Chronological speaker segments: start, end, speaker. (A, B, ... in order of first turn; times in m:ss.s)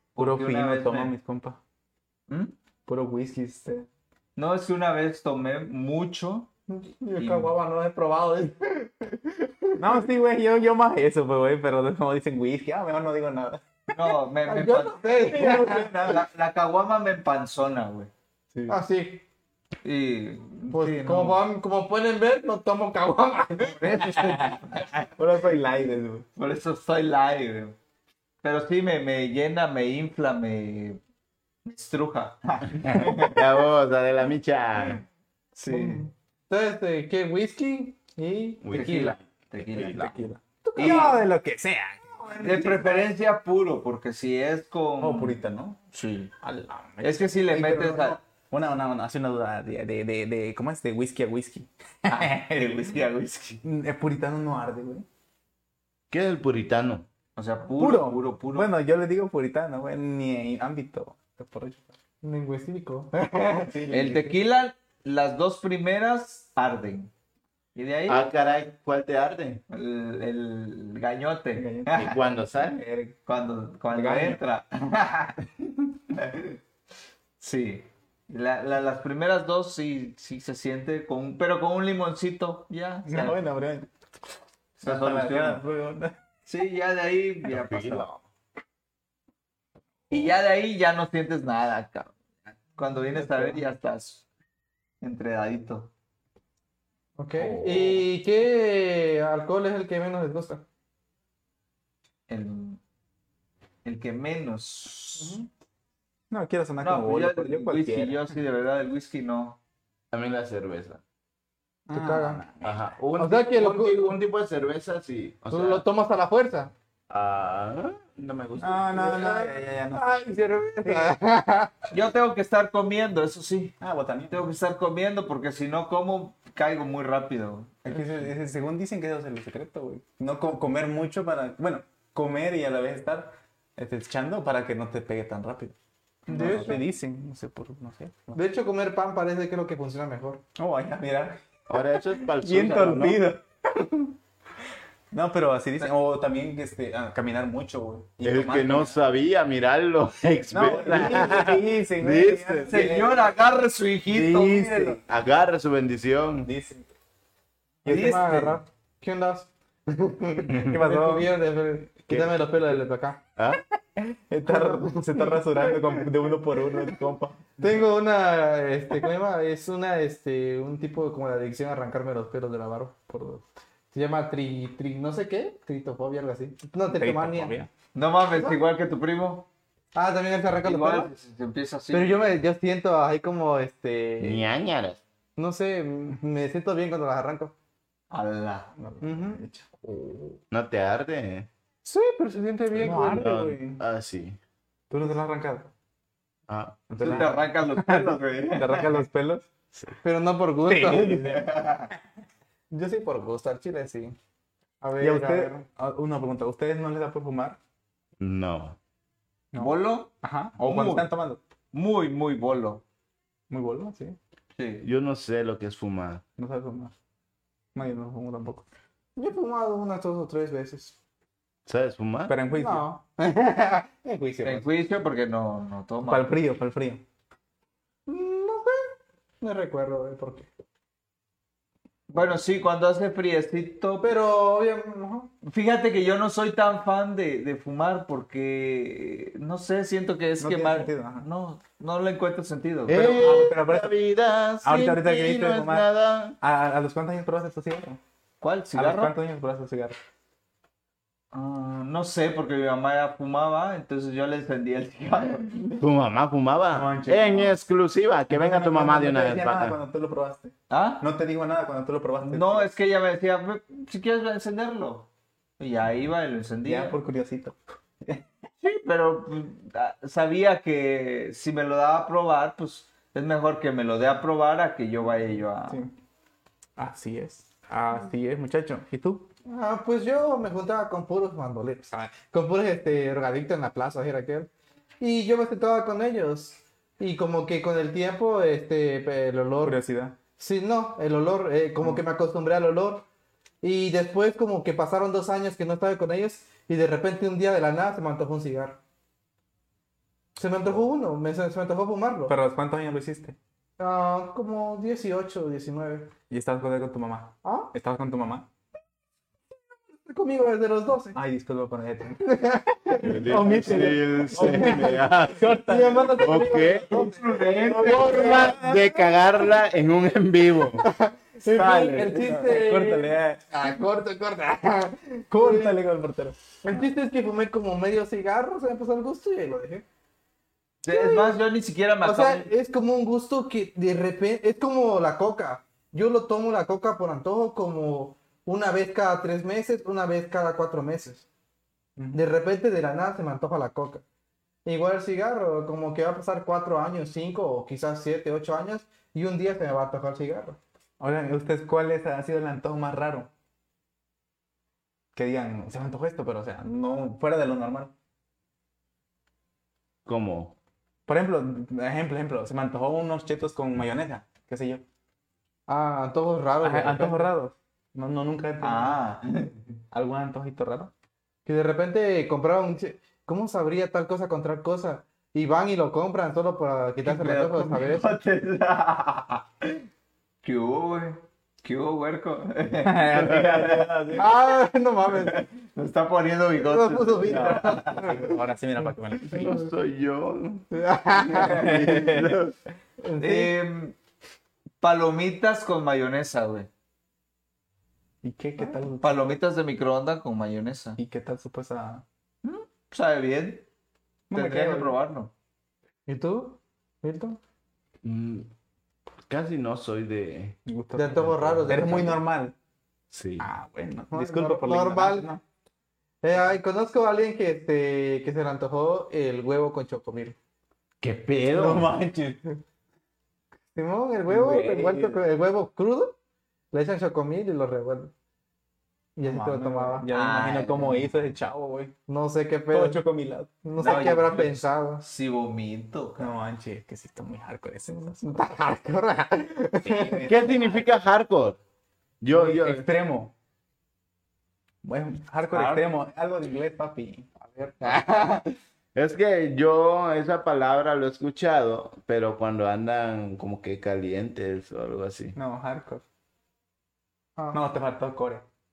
0:00.2-0:01.1 A
0:00.2-0:01.6 B
0:02.3-0:02.5 A
0:02.9-0:03.9 B
0:04.4-0:06.5 A
0:06.7-0:10.0 C
0:07.2-0:07.5 A
0:09.8-0:13.8 B
0:13.9-0:18.1 A
0:14.5-0:16.0 C
0:15.3-0:16.2 B
0:18.7-0:19.2 C
0:19.8-0:21.4 A
0:20.7-0:24.4 C
0:23.7-0:25.1 A
0:25.2-0:26.3 B
0:26.4-0:27.8 A
0:28.4-0:31.0 A
0:31.6-0:33.4 A
0:32.8-0:35.0 D
0:35.6-0:36.0 A
0:35.7-0:39.2 C
0:38.6-0:40.2 D
0:38.7-0:41.2 A
0:39.9-0:42.8 B
0:40.6-0:41.2 C
0:42.4-0:45.4 A
0:45.0-0:45.8 B
0:45.9-0:46.3 A
0:46.4-0:52.9 B
0:47.0-0:48.2 A
0:52.1-0:53.6 A
0:53.6-0:55.1 B
0:56.1-0:57.1 D
0:57.4-0:58.7 A
0:57.8-1:01.9 B
1:02.2-1:03.7 C
1:03.6-1:04.4 B
1:03.9-1:07.1 A
1:07.8-1:08.3 A
1:08.1-1:09.6 D
1:09.7-1:12.2 A
1:11.6-1:13.2 B
1:11.9-1:12.8 D
1:13.3-1:15.4 A
1:13.9-1:14.4 B
1:16.1-1:16.6 A
1:17.4-1:23.4 A
1:23.1-1:23.9 B
1:24.8-1:25.6 A
1:24.8-1:26.2 B
1:26.5-1:28.1 A
1:27.5-1:28.2 D
1:30.1-1:32.2 A
1:32.8-1:34.2 A
1:33.2-1:33.6 B
1:35.0-1:35.9 A
1:37.2-1:40.6 C
1:37.4-1:38.0 D
1:42.3-1:42.8 A
1:43.8-1:45.4 A
1:45.2-1:45.5 C
1:46.3-1:48.3 B
1:46.8-1:49.6 A
1:50.1-1:51.0 D
1:51.9-1:52.8 B
1:51.9-1:52.4 C
1:52.6-1:55.8 D
1:53.2-1:54.2 C
1:55.5-1:56.7 C
1:57.1-1:58.8 D
1:58.6-2:00.1 B
1:58.9-2:01.8 C
2:00.8-2:01.1 B
2:01.9-2:03.8 A
2:03.8-2:04.4 B
2:04.3-2:08.3 A
2:07.9-2:15.8 B
2:16.3-2:16.8 A
2:16.3-2:16.8 C
2:16.3-2:18.4 B
2:18.4-2:20.4 C
2:20.6-2:21.4 B
2:21.7-2:23.2 D
2:22.2-2:23.4 B
2:25.1-2:29.0 B
2:28.2-2:32.9 D
2:30.5-2:33.2 B
2:32.7-2:35.0 A
2:34.1-2:35.0 B
2:35.0-2:36.5 D
2:36.4-2:36.9 B
2:37.8-2:38.6 B
2:37.9-2:38.6 A
2:37.9-2:43.2 C
2:40.5-2:40.8 D
2:40.6-2:41.3 B
2:42.1-2:42.3 D
2:43.4-2:43.6 D
2:44.0-2:47.6 B
2:44.4-2:46.1 C
2:47.6-2:53.1 C
2:53.1-2:53.4 B
2:53.9-2:57.6 C
2:56.9-2:57.7 B
2:57.9-2:59.5 A
3:00.0-3:01.1 C
3:00.6-3:02.3 A
3:01.9-3:04.4 C
3:04.2-3:05.0 D
3:05.4-3:07.5 C
3:08.1-3:08.7 A
3:08.8-3:09.7 B
3:09.0-3:10.4 C
3:10.5-3:11.5 D
3:11.8-3:13.3 C
3:12.8-3:13.8 B
3:12.9-3:14.4 D
3:14.9-3:15.7 B
3:16.5-3:17.1 D
3:16.9-3:19.5 B
3:17.0-3:19.0 A
3:20.0-3:21.4 C
3:20.7-3:21.3 B
3:21.1-3:21.9 A
3:22.7-3:24.2 C
3:24.8-3:25.6 C
3:25.0-3:27.6 B
3:28.2-3:28.8 D
3:29.5-3:31.4 B
3:29.6-3:31.1 A
3:31.7-3:32.8 A
3:33.5-3:34.2 B
3:34.6-3:34.9 A
3:34.8-3:36.2 D
3:36.4-3:36.9 B
3:37.7-3:38.7 B
3:39.2-3:41.0 C
3:41.7-3:42.4 D
3:42.3-3:42.8 B
3:42.5-3:43.9 C
3:44.0-3:44.7 B
3:44.4-3:46.3 A
3:46.1-3:47.0 B
3:48.1-3:50.5 C
3:52.1-3:54.2 A
3:54.0-3:55.3 C
3:55.4-4:03.2 A
4:00.4-4:01.3 B
4:02.9-4:06.4 D
4:02.9-4:03.9 B
4:04.6-4:05.9 B
4:06.4-4:08.0 B
4:08.4-4:09.2 A
4:08.7-4:10.0 B
4:11.3-4:15.8 A
4:15.8-4:19.8 D
4:16.7-4:17.6 B
4:18.3-4:22.7 B
4:20.7-4:21.0 A
4:22.2-4:27.0 A
4:26.6-4:28.2 B
4:28.6-4:35.8 A
4:35.7-4:35.9 B
4:36.8-4:39.3 B
4:39.5-4:44.5 C
4:45.0-4:49.8 C
4:49.6-4:50.2 B
4:50.4-4:53.0 C
4:53.6-4:58.8 C
5:00.4-5:02.3 C
5:02.3-5:03.4 B
5:03.8-5:06.1 C
5:06.3-5:08.5 B
5:07.4-5:07.7 C
5:10.1-5:11.2 C
5:11.1-5:12.2 B
5:12.2-5:15.0 C
5:13.0-5:15.6 D
5:13.2-5:16.4 B
5:15.6-5:18.0 C
5:16.2-5:17.0 D
5:16.9-5:18.6 A
5:17.7-5:18.9 B
5:17.8-5:20.9 D
5:20.8-5:25.8 C
5:21.4-5:23.5 B
5:25.3-5:26.4 B
5:26.6-5:29.8 C
5:30.8-5:31.4 C
5:30.8-5:32.5 A
5:32.0-5:41.2 C
5:42.0-5:42.2 B
5:42.1-5:44.0 C
5:44.6-5:50.6 C
5:51.0-5:53.3 B
5:55.2-5:57.9 B
6:00.1-6:00.6 D
6:01.1-6:04.8 B
6:05.7-6:07.3 C
6:06.6-6:09.0 B
6:08.6-6:09.6 A
6:09.9-6:10.9 B
6:11.5-6:18.2 C
6:17.0-6:19.8 A
6:20.4-6:24.2 A
6:22.8-6:24.3 B
6:24.2-6:25.4 C
6:25.1-6:28.3 A
6:26.6-6:28.3 C
6:27.3-6:29.5 B
6:29.3-6:30.7 D
6:30.7-6:32.1 C
6:31.3-6:32.5 D
6:31.5-6:31.9 A
6:31.5-6:32.4 B
6:33.0-6:33.5 C
6:33.2-6:34.0 A
6:34.8-6:36.7 A
6:38.2-6:39.3 B
6:39.0-6:41.0 A
6:41.0-6:42.0 B
6:42.4-6:43.7 A
6:44.3-6:45.0 B
6:44.3-6:45.3 A
6:46.1-6:47.4 C
6:48.0-6:48.5 D
6:49.3-6:50.6 D
6:50.7-6:52.6 B
6:50.9-6:52.2 C
6:51.2-6:51.9 D
6:53.1-6:53.5 D
6:53.4-6:55.4 B
6:54.1-6:55.3 C
6:56.2-7:00.4 C
7:01.0-7:01.9 D
7:01.5-7:02.4 B
7:03.7-7:06.2 C
7:04.3-7:05.2 B
7:06.7-7:08.1 C
7:09.2-7:10.1 C
7:09.2-7:11.9 B
7:10.0-7:11.1 A
7:12.1-7:13.0 C
7:12.7-7:14.6 B
7:13.6-7:15.0 C
7:13.8-7:16.3 A
7:16.2-7:18.3 B
7:18.2-7:20.2 C
7:19.8-7:20.9 B
7:20.2-7:21.6 D
7:22.2-7:22.8 D
7:22.3-7:23.3 B
7:24.8-7:27.3 B
7:25.5-7:25.9 A
7:27.4-7:28.5 C
7:29.0-7:35.4 D
7:35.4-7:36.0 B
7:37.4-7:37.6 C
7:37.5-7:38.4 B